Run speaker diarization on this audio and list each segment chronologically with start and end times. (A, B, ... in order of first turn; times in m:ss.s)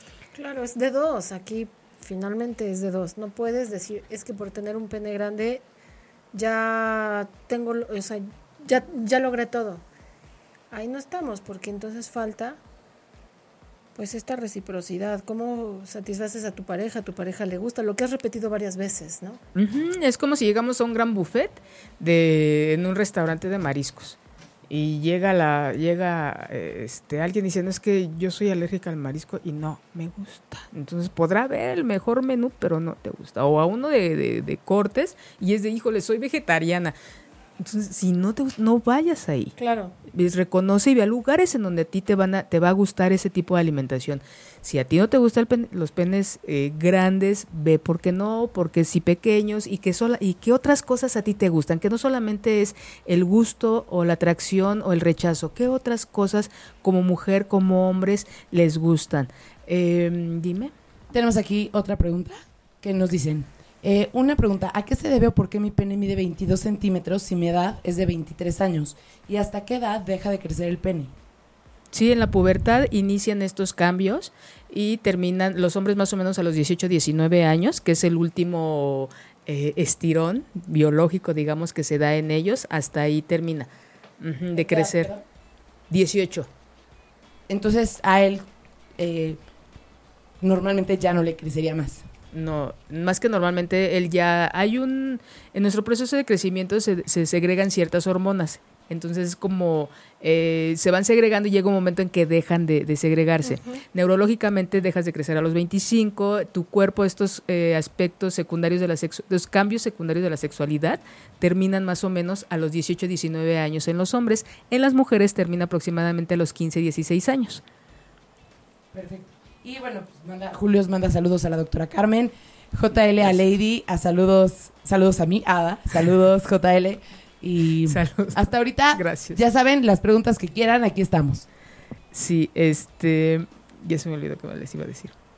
0:00.3-0:05.6 A
0:06.3-0:09.8 A
0:10.7-0:12.6 A
0:14.0-0:19.4 A
0:19.5-0:24.2 B
0:24.7-0:36.9 B
0:37.6-0:39.5 B
0:39.6-0:39.9 A
0:40.1-1:00.7 B
1:01.1-1:11.1 C
1:11.9-1:23.7 B
1:24.2-1:25.1 B
1:24.5-1:25.2 C
1:25.9-1:26.5 B
1:27.5-1:28.4 C
1:29.0-1:29.4 C
1:30.4-1:32.0 C
1:32.3-1:57.6 B
1:43.4-1:43.8 A
1:58.9-2:11.4 C
2:07.8-2:09.4 B
2:12.1-2:15.1 B